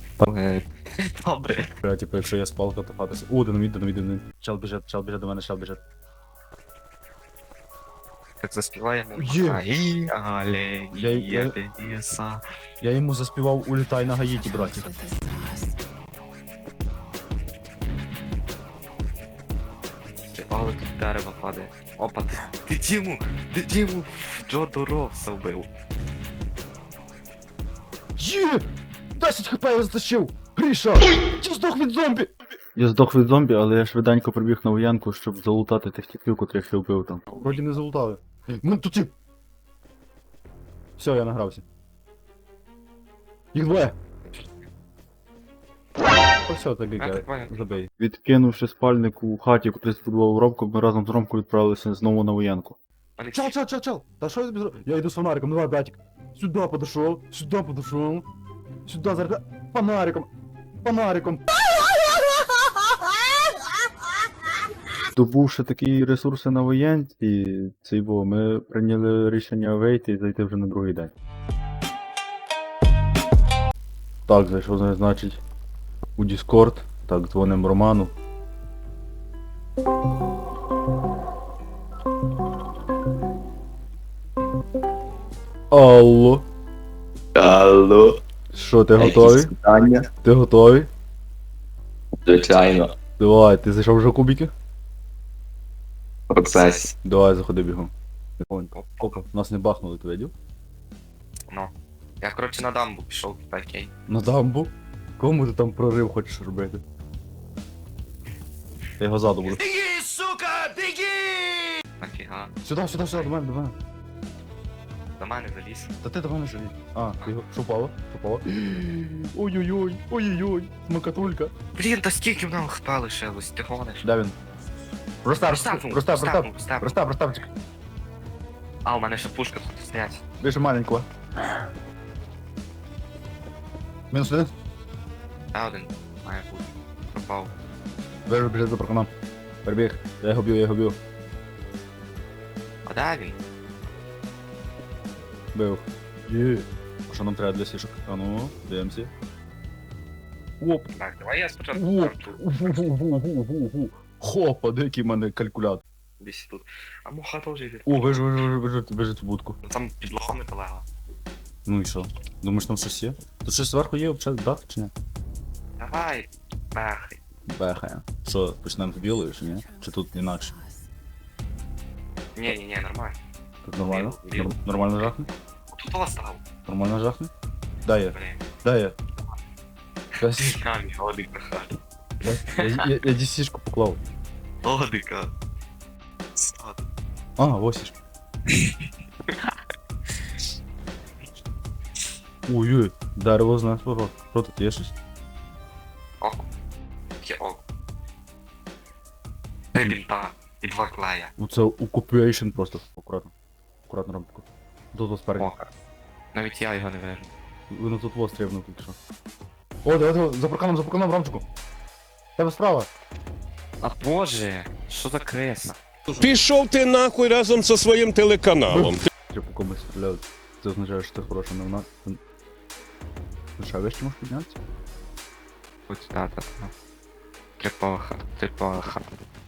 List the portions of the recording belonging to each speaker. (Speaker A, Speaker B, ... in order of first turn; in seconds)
Speaker A: 0.2-1.7, 8.4-12.4, 20.3-25.7, 47.0-47.8, 53.2-53.5, 96.5-96.9, 98.7-99.2, 101.5-103.9, 112.0-112.5, 115.2-115.9, 121.7-124.0, 125.5-127.0, 128.8-130.2, 135.5-137.5, 142.8-143.3, 150.9-152.4, 156.2-158.2, 159.6-160.8, 165.8-167.2, 172.3-173.2, 173.8-176.4, 178.1-178.4, 180.4-181.8, 184.6-185.3, 186.3-186.8, 189.3-189.5, 196.2-196.5, 197.2-197.6, 199.7-201.3, 205.4-205.7, 206.3-207.3, 213.8-215.8, 225.9-226.7, 227.6-229.0
Speaker B: 1.8-5.8, 9.1-9.6, 10.9-11.6, 12.8-14.9, 28.2-39.1, 41.0-41.6, 43.5-43.9, 46.5-52.8, 53.3-58.2, 58.9-60.3, 60.8-61.4, 65.1-71.1, 74.3-75.4, 76.2-78.1, 85.7-86.5, 88.5-89.5, 90.2-90.9, 93.2-94.5, 97.0-100.3, 104.1-106.8, 109.0-111.5, 112.6-113.8, 116.0-121.5, 124.0-124.3, 125.2-127.5, 130.4-131.1, 134.1-134.5, 138.3-139.1, 139.6-141.0, 145.5-149.1, 150.6-150.9, 151.7-155.8, 157.8-159.6, 161.7-164.9, 167.5-170.6, 173.6-175.3, 176.7-177.3, 177.8-178.9, 180.2-180.6, 182.2-184.0, 187.4-187.9, 192.5-194.9, 201.4-203.3, 203.9-205.5, 207.7-208.9, 209.8-211.4, 212.4-212.9, 218.7-222.2, 223.6-224.6
Speaker C: 87.3-88.2, 89.0-90.1, 92.2-92.9, 96.3-96.9
Speaker D: 216.2-219.0